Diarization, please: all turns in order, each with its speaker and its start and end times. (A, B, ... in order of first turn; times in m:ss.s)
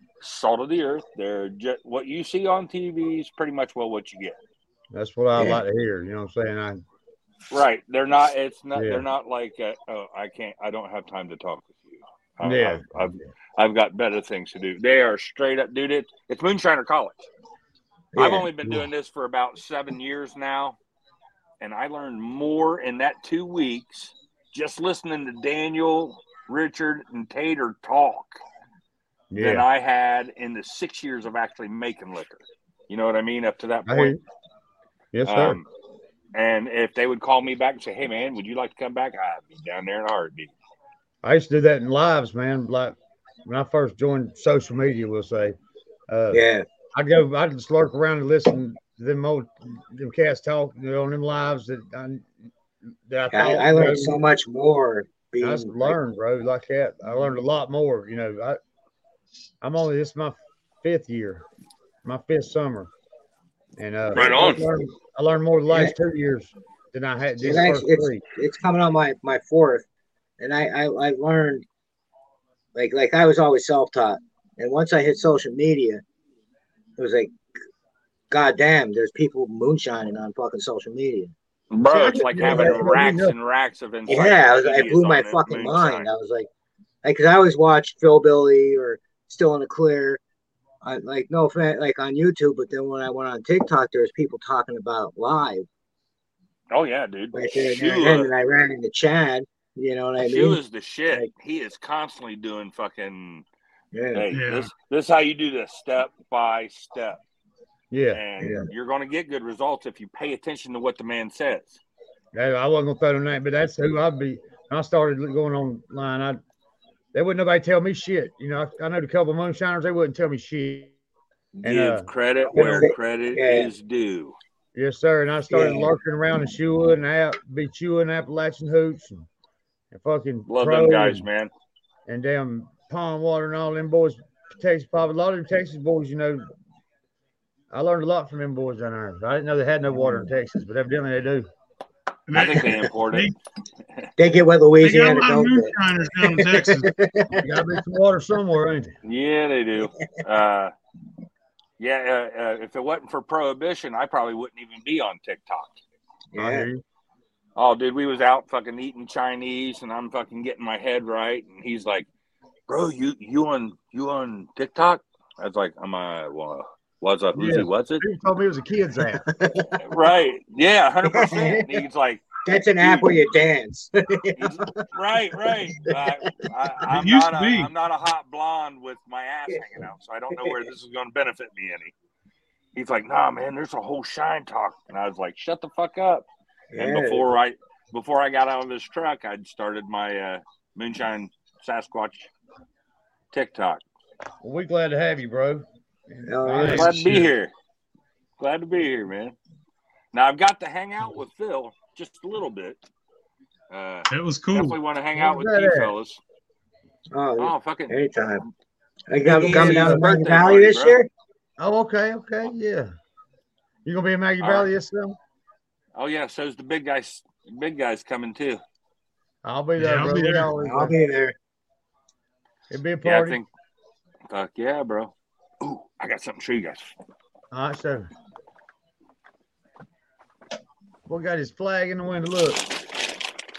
0:00.2-0:04.4 A
0:04.9-0:06.8 B
0:05.4-0:05.6 C
0:07.5-0:17.3 A
0:08.8-0:09.0 B
0:12.4-0:13.2 B
0:18.2-0:18.5 C
0:18.2-0:20.8 A
0:18.6-0:18.9 B
0:21.6-0:28.4 A
0:29.3-0:29.7 B
0:29.4-0:34.2 A
0:33.9-0:34.2 B
0:35.1-0:35.6 B
0:35.2-0:35.7 A
0:36.3-0:40.5 A
0:41.2-0:45.6 B
0:46.1-0:46.4 B
0:46.3-0:46.6 C
0:47.0-0:52.3 B
0:53.1-0:54.2 B
0:53.3-0:56.0 C
0:55.4-0:58.6 B
0:59.6-1:01.4 B
1:02.0-1:02.9 B
1:03.8-1:08.2 B
1:04.1-1:04.7 A
1:07.4-1:09.8 C
1:10.4-1:11.6 C
1:12.8-1:16.0 C
1:17.0-1:17.3 C
1:18.3-1:21.3 C
1:21.7-1:26.1 A
1:21.9-1:23.4 B
1:22.1-1:23.0 C
1:24.1-1:26.5 C
1:27.0-1:30.2 C
1:30.8-1:35.7 C
1:36.7-1:38.3 A
1:37.3-1:40.6 C
1:40.2-1:43.5 A
1:43.9-1:44.3 C
1:44.1-1:47.2 A
1:44.3-1:44.7 D
1:47.9-1:48.6 B
1:48.1-1:51.8 A
1:52.3-1:56.4 B
1:57.1-2:00.9 B
2:01.6-2:04.4 A
2:01.6-2:02.1 B
2:02.5-2:03.7 C
2:04.8-2:09.3 B
2:05.5-2:05.9 C
2:09.9-2:11.3 B
2:10.5-2:11.5 A
2:12.1-2:16.5 B
2:17.7-2:21.5 B
2:22.3-2:23.3 D
2:22.3-2:23.3 A
2:24.2-2:25.7 C
2:24.8-2:26.9 D
2:26.2-2:27.5 C
2:27.4-2:29.0 B
2:29.0-2:30.7 A
2:31.8-2:35.8 A
2:36.3-2:36.7 C
2:36.4-2:36.8 B
2:37.6-2:42.1 A
2:42.7-2:48.0 A
2:47.3-2:49.2 B
2:49.2-2:49.7 C
2:49.8-2:53.1 A
2:51.0-2:51.8 C
2:52.5-2:54.8 C
2:54.4-3:01.9 A
2:55.4-2:56.1 C
2:56.9-2:57.7 D
3:02.8-3:06.3 A
3:06.7-3:07.2 C
3:06.8-3:12.3 A
3:13.3-3:13.8 A
3:14.4-3:17.0 B
3:16.3-3:17.1 C
3:16.6-3:17.5 A
3:16.9-3:17.3 D
3:18.4-3:19.4 A
3:20.1-3:22.8 A
3:23.7-3:26.2 A
3:24.1-3:24.8 D
3:25.2-3:25.9 B
3:27.1-3:28.4 C
3:27.4-3:28.0 A
3:29.1-3:31.1 C
3:29.2-3:31.0 A
3:29.2-3:30.2 B
3:31.6-3:32.9 B
3:33.8-3:35.2 B
3:34.4-3:34.7 A
3:36.0-3:38.6 A
3:39.4-3:41.0 B
3:39.8-3:40.5 D
3:40.6-3:41.4 C
3:42.7-3:43.4 B
3:43.0-3:43.5 A
3:44.3-3:46.9 A
3:47.5-3:48.1 B
3:51.1-3:52.7 B